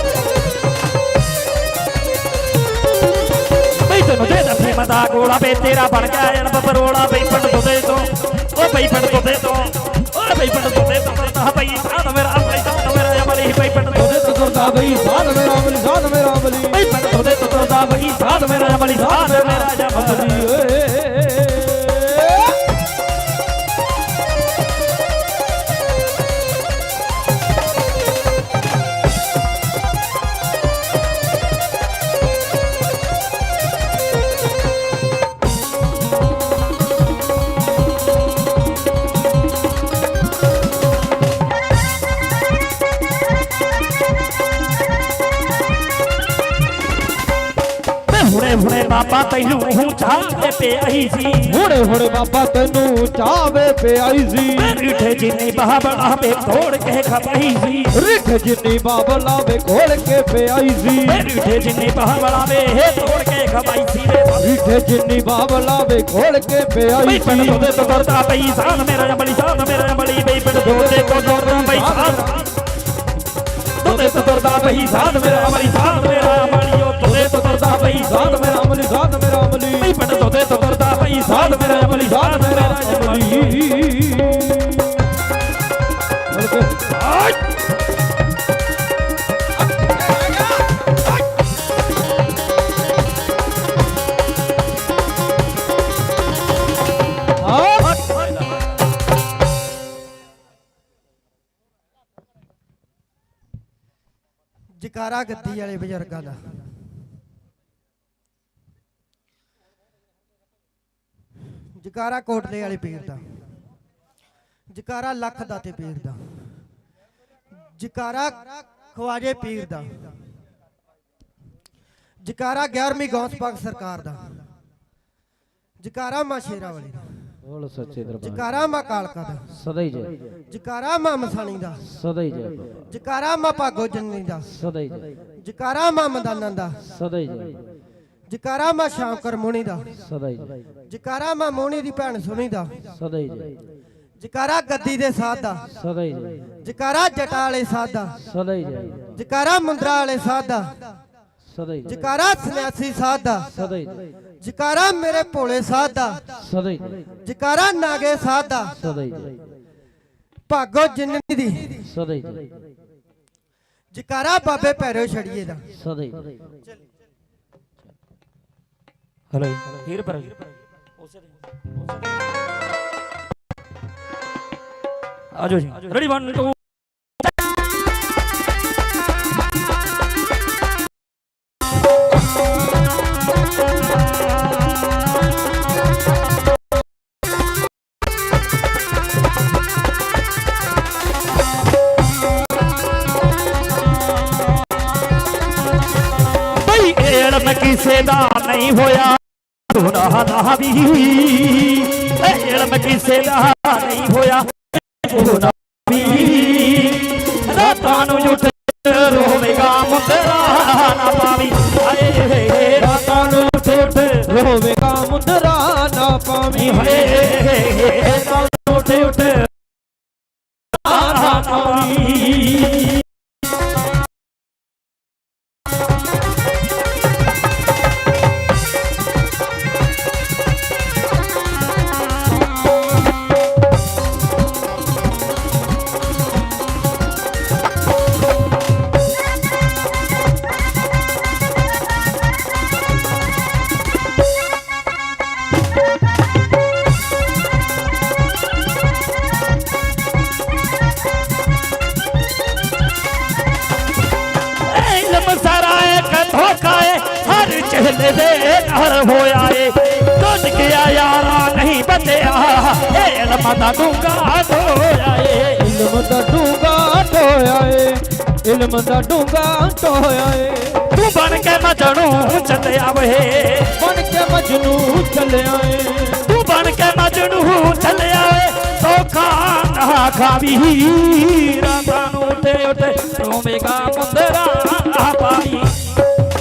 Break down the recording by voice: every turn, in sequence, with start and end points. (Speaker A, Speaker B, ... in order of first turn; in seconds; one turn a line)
Speaker A: 3.8-14.7
Speaker B: 14.1-16.8
Speaker A: 16.7-20.6
Speaker B: 18.3-22.5
Speaker A: 48.1-51.6
Speaker B: 51.4-54.8
Speaker A: 54.5-57.9
Speaker B: 57.9-61.2
Speaker A: 61.0-64.6
Speaker B: 64.4-68.0
Speaker A: 67.0-72.5
Speaker B: 70.6-72.4
Speaker A: 73.8-78.6
Speaker B: 73.8-76.3
Speaker B: 77.0-79.9
Speaker A: 79.8-83.6
Speaker B: 81.2-84.9
Speaker B: 86.3-87.0
Speaker B: 89.8-90.6
Speaker B: 97.4-98.0
Speaker A: 98.0-98.4
Speaker C: 104.8-106.4
Speaker C: 111.8-113.2
Speaker C: 114.7-116.2
Speaker C: 117.8-120.0
Speaker C: 122.2-124.2
Speaker C: 125.8-127.1
Speaker B: 127.4-128.5
Speaker C: 128.2-129.4
Speaker B: 129.5-130.2
Speaker C: 130.5-131.8
Speaker B: 131.9-132.8
Speaker C: 132.9-134.5
Speaker B: 134.5-135.1
Speaker C: 135.4-136.8
Speaker B: 136.8-137.7
Speaker C: 138.3-139.9
Speaker B: 140.0-140.6
Speaker C: 140.9-142.9
Speaker B: 142.9-143.6
Speaker C: 144.2-145.7
Speaker B: 145.7-146.5
Speaker C: 146.6-148.2
Speaker B: 148.2-149.2
Speaker C: 149.1-150.8
Speaker B: 151.5-152.0
Speaker C: 151.8-153.5
Speaker B: 153.5-154.0
Speaker C: 154.4-156.4
Speaker B: 156.4-157.0
Speaker C: 157.2-159.2
Speaker B: 158.8-159.4
Speaker C: 160.5-161.9
Speaker B: 161.8-162.7
Speaker C: 163.9-165.6
Speaker B: 165.7-166.3
Speaker A: 169.3-170.4
Speaker A: 175.3-176.6
Speaker A: 196.6-214.3
Speaker B: 207.5-208.4
Speaker B: 212.7-217.3
Speaker A: 216.5-219.5
Speaker A: 220.8-223.0
Speaker B: 220.8-222.3
Speaker A: 254.6-265.6
Speaker B: 265.6-270.9
Speaker A: 270.9-273.8
Speaker B: 273.8-276.3
Speaker A: 276.2-285.9